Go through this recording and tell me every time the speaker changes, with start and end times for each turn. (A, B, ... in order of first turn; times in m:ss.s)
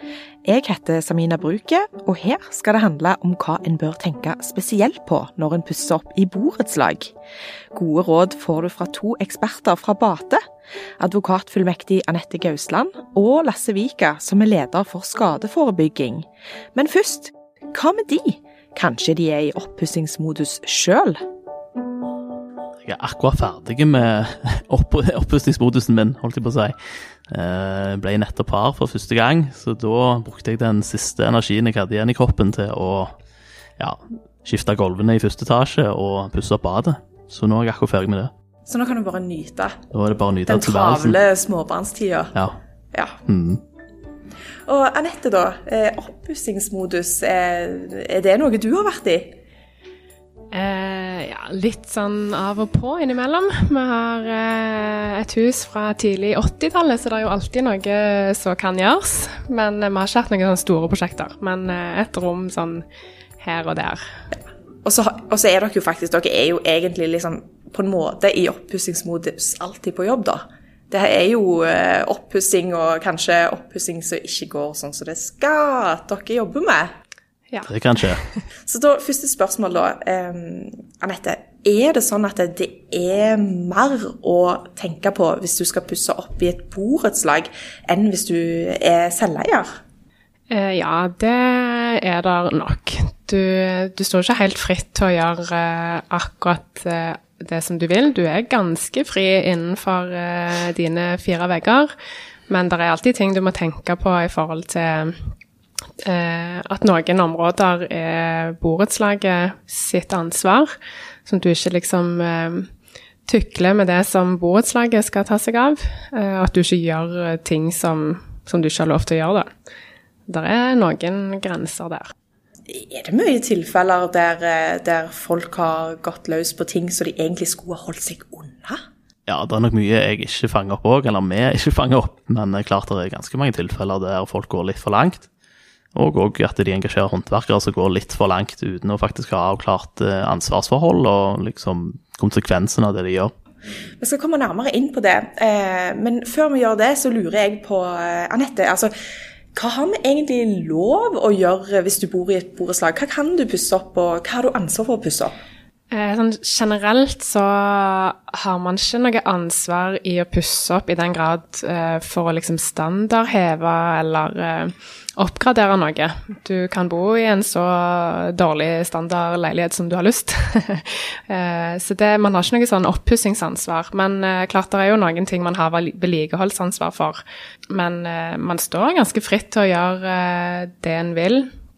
0:00.4-0:07.1 A
0:07.7-0:10.4 A
0:11.0-0:21.2 A
0:22.8-0:26.8 B
0:27.3-0:33.1 B
0:33.8-0:38.3 B
0:38.6-0:39.8 A
0:39.9-0:41.2 B
0:40.5-0:42.3 A
0:43.3-0:43.6 B
0:44.7-0:49.4 A
0:50.5-1:02.8 C
1:03.4-1:04.0 C
1:04.8-1:16.9 A
1:17.7-1:18.2 B
1:18.6-1:29.7 A
1:30.5-1:41.9 C
1:42.5-1:45.2 C
1:46.0-1:50.7 C
1:51.2-1:52.7 C
1:53.3-1:59.5 C
2:00.3-2:02.1 C
2:02.7-2:08.8 A
2:09.3-2:15.3 B
2:15.9-2:23.3 B
2:24.0-2:28.9 A
2:29.5-2:35.3 A
2:35.9-3:01.5 C